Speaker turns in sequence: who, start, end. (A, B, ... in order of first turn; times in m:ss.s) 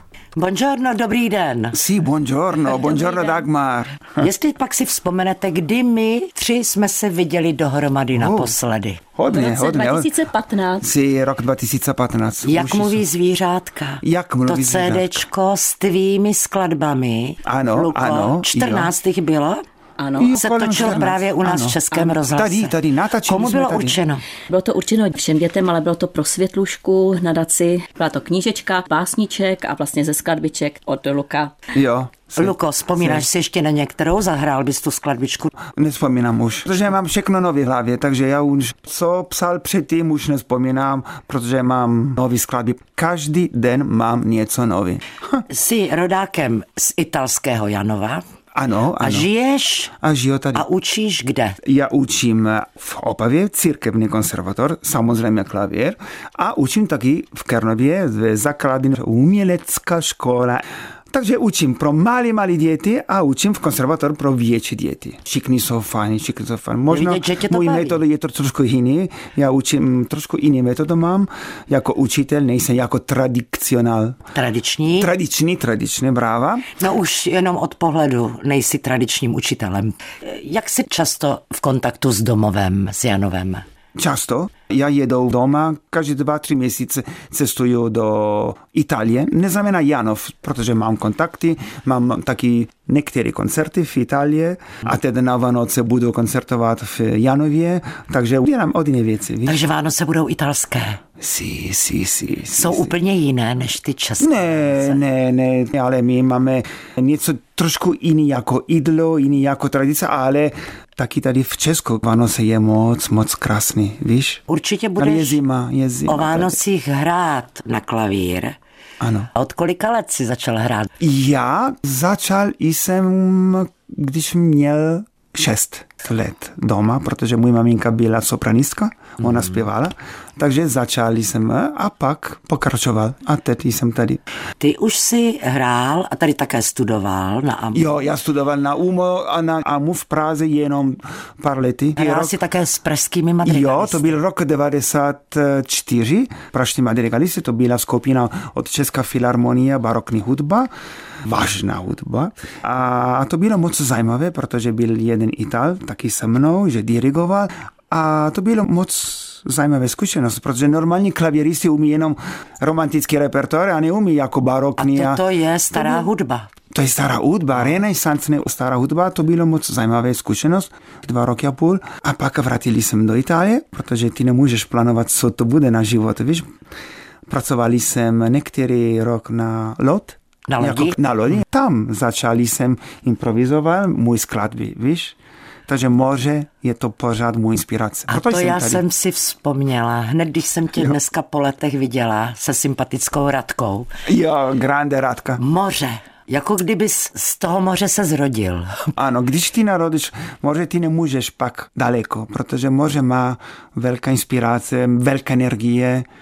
0:00.4-0:01.8 A
0:01.7-0:04.3 B
0:02.6-0:03.4 C
0:04.2-0:09.1 A
0:08.1-0:08.5 B
0:09.1-0:10.2 B
0:09.2-0:10.9 C
0:10.8-0:13.0 B
0:12.4-0:19.6 A
0:14.0-0:15.2 B
0:17.4-0:18.9 B
0:20.0-0:21.2 C
0:20.2-0:24.0 B
0:20.4-0:22.7 A
0:21.9-0:22.2 C
0:23.2-0:24.2 A
0:24.5-0:31.5 C
0:31.7-0:33.2 B
0:32.4-0:35.5 A
0:35.7-0:45.4 B
0:45.5-0:48.2 A
0:48.5-0:49.3 B
0:49.0-0:49.9 A
0:50.0-0:50.6 B
0:50.5-0:51.6 A
0:51.6-1:14.2 B
1:06.9-1:08.0 A
1:14.3-1:15.1 A
1:15.0-1:16.7 B
1:16.7-1:23.6 A
1:24.0-1:39.6 B
1:39.4-1:41.0 A
1:41.2-1:42.9 B
1:42.5-1:45.0 A
1:44.2-1:54.4 B
1:54.5-1:55.4 A
1:55.0-1:56.6 B
1:56.1-1:58.6 A
1:59.0-1:59.3 B
1:59.4-2:00.9 A
2:01.0-2:14.2 B
2:14.6-2:17.9 A
2:17.7-2:22.3 B
2:22.0-2:24.1 A
2:23.4-2:30.7 B
2:31.2-2:45.2 B
2:44.8-2:46.5 A
2:45.7-2:46.1 B
2:46.7-2:56.5 B
2:57.3-3:05.2 B
3:00.5-3:01.0 A
3:05.7-3:08.8 B
3:08.1-3:13.9 A
3:14.0-3:15.4 B
3:15.4-3:18.9 A
3:18.9-3:26.1 B